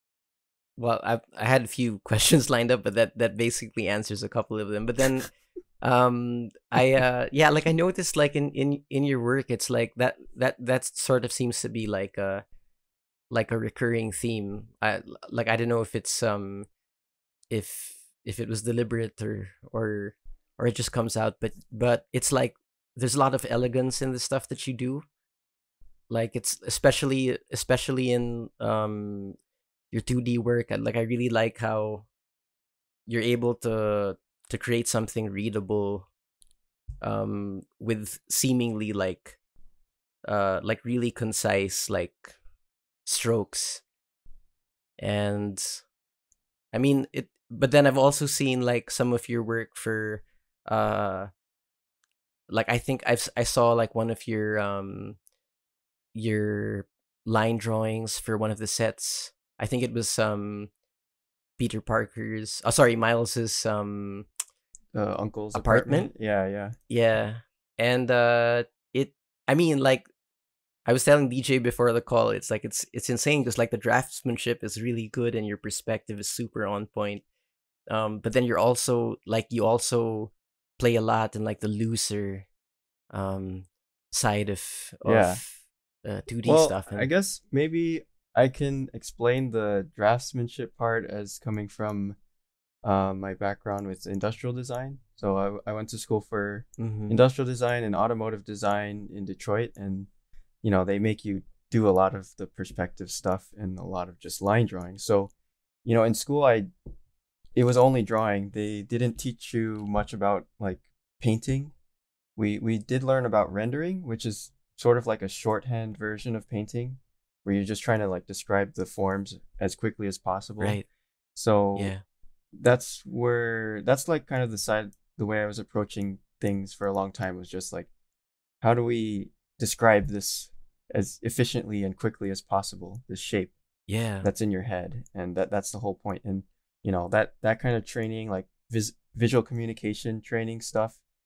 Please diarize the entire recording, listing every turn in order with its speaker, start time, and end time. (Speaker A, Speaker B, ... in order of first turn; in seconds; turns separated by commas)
Speaker A: 0.8-12.4, Speaker A: 13.3-16.7, Speaker A: 17.5-25.0, Speaker A: 26.1-29.4, Speaker A: 29.9-32.1, Speaker A: 33.1-36.1, Speaker A: 37.0-39.4, Speaker A: 40.2-42.4, Speaker A: 43.0-43.8, Speaker A: 45.0-45.9, Speaker A: 46.7-51.3, Speaker A: 52.5-55.2, Speaker A: 56.1-60.7, Speaker A: 61.6-64.3, Speaker B: 64.9-66.8, Speaker A: 65.5-66.1, Speaker A: 66.9-70.1, Speaker A: 70.8-77.2, Speaker A: 77.9-82.5, Speaker A: 83.1-87.1, Speaker B: 85.0-85.4, Speaker B: 86.4-92.2, Speaker B: 92.8-100.1, Speaker A: 96.8-97.2, Speaker B: 100.6-105.3, Speaker B: 105.8-106.7, Speaker B: 107.5-111.7, Speaker B: 112.4-120.8, Speaker A: 120.6-120.9, Speaker B: 121.3-121.9, Speaker A: 121.8-122.0, Speaker B: 122.5-127.9, Speaker B: 128.6-133.5, Speaker A: 133.9-134.3, Speaker B: 134.2-141.0